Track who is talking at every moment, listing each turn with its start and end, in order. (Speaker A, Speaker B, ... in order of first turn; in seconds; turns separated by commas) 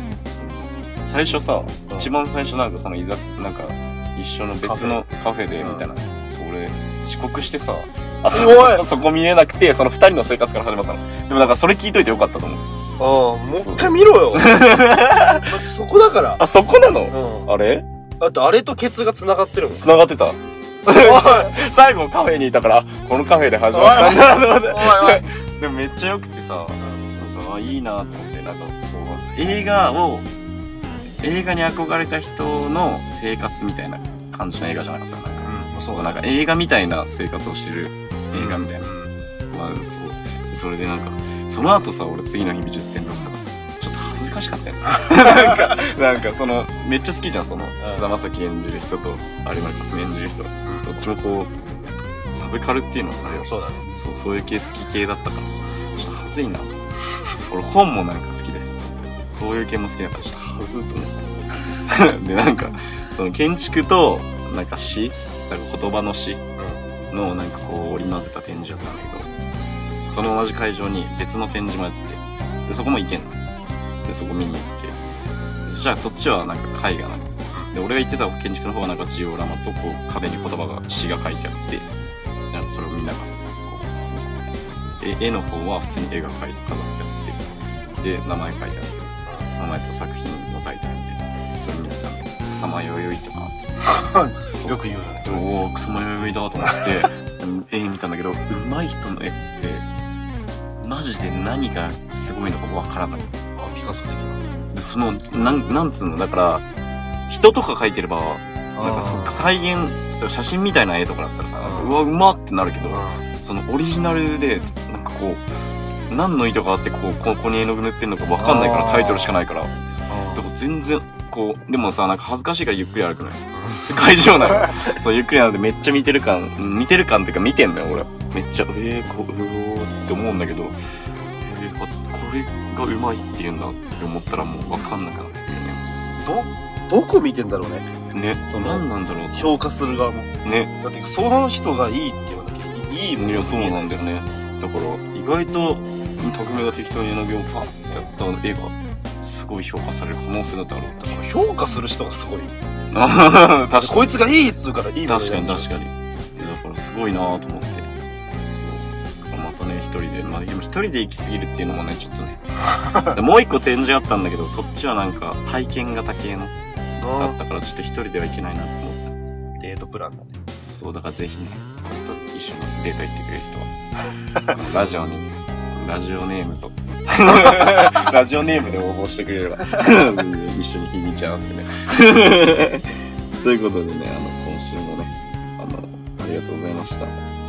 Speaker A: 0.3-12.6, Speaker B: 4.6-5.0, Speaker B: 5.6-5.9, Speaker B: 8.3-8.9, Speaker B: 13.0-14.8, Speaker A: 13.5-15.5, Speaker B: 15.4-16.4, Speaker A: 16.4-17.9, Speaker B: 17.1-17.5, Speaker B: 18.2-19.9, Speaker A: 19.7-30.3, Speaker B: 20.9-21.5, Speaker B: 23.7-25.2, Speaker A: 31.2-38.9, Speaker B: 35.4-36.2, Speaker B: 38.3-39.1, Speaker A: 39.5-51.5, Speaker B: 45.0-45.6, Speaker B: 47.8-48.1, Speaker A: 52.3-56.8, Speaker B: 53.2-53.8, Speaker A: 57.4-61.1, Speaker A: 61.8-66.4, Speaker B: 66.6-66.8, Speaker A: 67.1-69.3, Speaker A: 70.1-73.4, Speaker A: 74.0-75.0, Speaker A: 75.6-81.9, Speaker A: 82.5-87.4, Speaker A: 88.0-89.0, Speaker A: 89.6-93.6, Speaker B: 94.0-95.4, Speaker A: 94.5-99.8, Speaker B: 96.6-96.9, Speaker A: 100.8-103.3, Speaker B: 103.6-104.4, Speaker A: 104.7-106.6, Speaker A: 107.3-115.4, Speaker B: 108.8-109.5, Speaker B: 111.6-112.0, Speaker B: 112.9-113.2, Speaker A: 116.1-119.7, Speaker B: 118.4-119.4, Speaker B: 120.1-120.4, Speaker A: 120.3-130.8, Speaker B: 123.5-123.9, Speaker A: 131.4-135.8, Speaker B: 136.2-137.9, Speaker A: 138.1-139.6, Speaker B: 138.4-143.9, Speaker A: 140.4-140.7, Speaker A: 143.2-151.2, Speaker B: 151.0-152.5, Speaker A: 152.9-154.3, Speaker B: 153.8-155.7, Speaker A: 155.0-157.9, Speaker A: 158.5-162.4, Speaker B: 162.6-163.2, Speaker A: 163.0-169.0, Speaker B: 167.0-167.4, Speaker B: 169.6-170.4, Speaker A: 170.7-173.7, Speaker A: 174.4-187.2